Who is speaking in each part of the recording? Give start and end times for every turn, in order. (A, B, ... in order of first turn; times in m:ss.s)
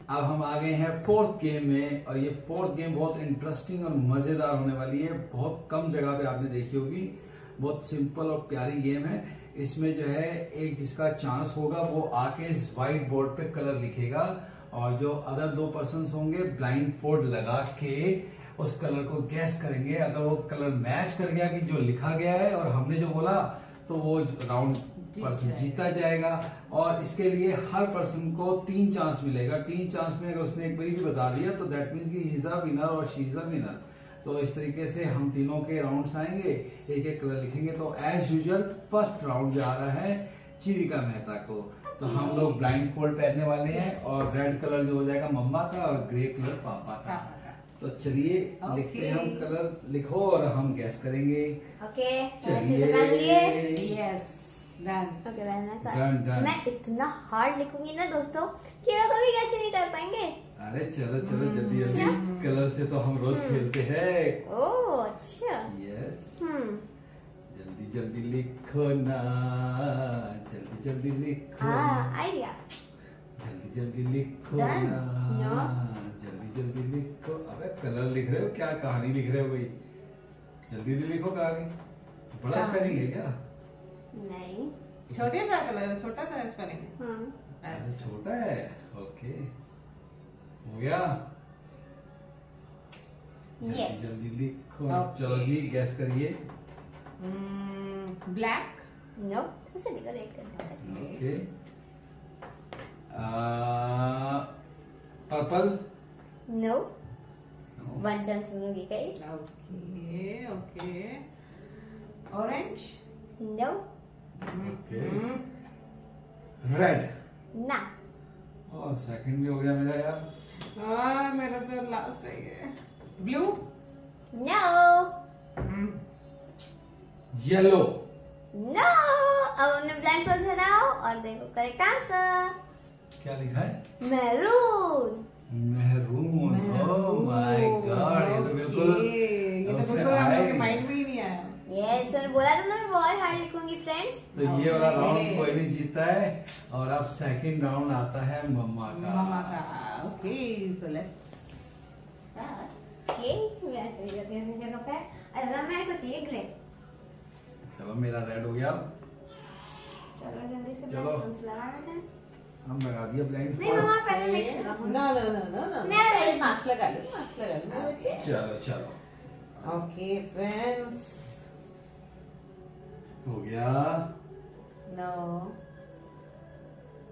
0:00.1-0:51.6 A
0:25.1-0:25.8 B
0:42.0-0:42.6 C
0:47.0-0:47.6 B
0:48.6-0:49.5 B
0:51.8-0:53.6 C
0:52.4-0:53.9 A
0:53.7-0:55.2 B
0:55.2-1:00.4 C
0:55.8-0:56.6 A
1:00.6-1:04.4 A
1:01.2-1:02.5 B
1:01.7-1:02.2 C
1:03.3-1:03.7 C
1:04.4-1:05.7 C
1:05.7-1:06.5 A
1:06.4-1:06.8 C
1:07.5-1:12.1 A
1:11.6-1:12.6 C
1:13.4-1:19.7 A
1:14.5-1:15.0 B
1:15.3-1:15.7 C
1:20.7-1:21.7 A
1:22.3-1:23.4 A
1:22.6-1:22.9 C
1:24.1-1:24.7 C
1:25.1-1:27.0 B
1:27.0-1:27.3 C
1:27.6-1:28.1 B
1:27.7-1:29.5 A
1:30.6-1:31.2 A
1:33.6-1:34.1 C
1:33.6-1:36.4 A
1:34.9-1:35.6 B
1:37.2-1:38.9 B
1:39.2-1:40.7 C
1:40.5-1:41.2 B
1:40.8-1:41.5 A
1:43.1-1:44.5 A
1:45.3-1:45.8 A
1:46.5-1:46.9 C
1:47.8-1:48.0 A
1:48.0-1:49.2 C
1:49.2-1:51.2 B
1:52.3-1:53.0 B
1:53.4-1:53.8 C
1:54.4-1:55.4 B
1:54.6-1:55.2 A
1:56.6-1:57.1 A
1:57.5-1:57.9 C
1:58.7-2:00.2 A
2:00.8-2:03.6 B
2:04.3-2:05.1 C
2:05.6-2:06.0 B
2:07.3-2:08.0 A
2:08.5-2:12.6 C
2:13.2-2:13.8 A
2:14.0-2:15.2 C
2:15.5-2:19.1 A
2:16.4-2:21.6 B
2:19.6-2:20.8 A
2:21.7-2:24.3 C
2:24.3-2:29.6 A
2:24.4-2:25.6 B
2:28.9-2:31.6 B
2:32.2-2:32.7 B
2:33.1-2:36.5 C
2:37.7-2:38.9 A
2:40.2-2:42.0 C
2:40.9-2:41.3 A
2:42.6-2:43.9 A
2:43.6-2:45.1 C
2:43.6-2:48.3 B
2:45.8-2:46.5 C
2:47.7-2:48.2 C
2:48.2-2:49.0 A
2:49.6-2:49.8 A
2:49.6-2:51.4 B
2:53.2-2:54.1 A
2:54.9-2:55.6 B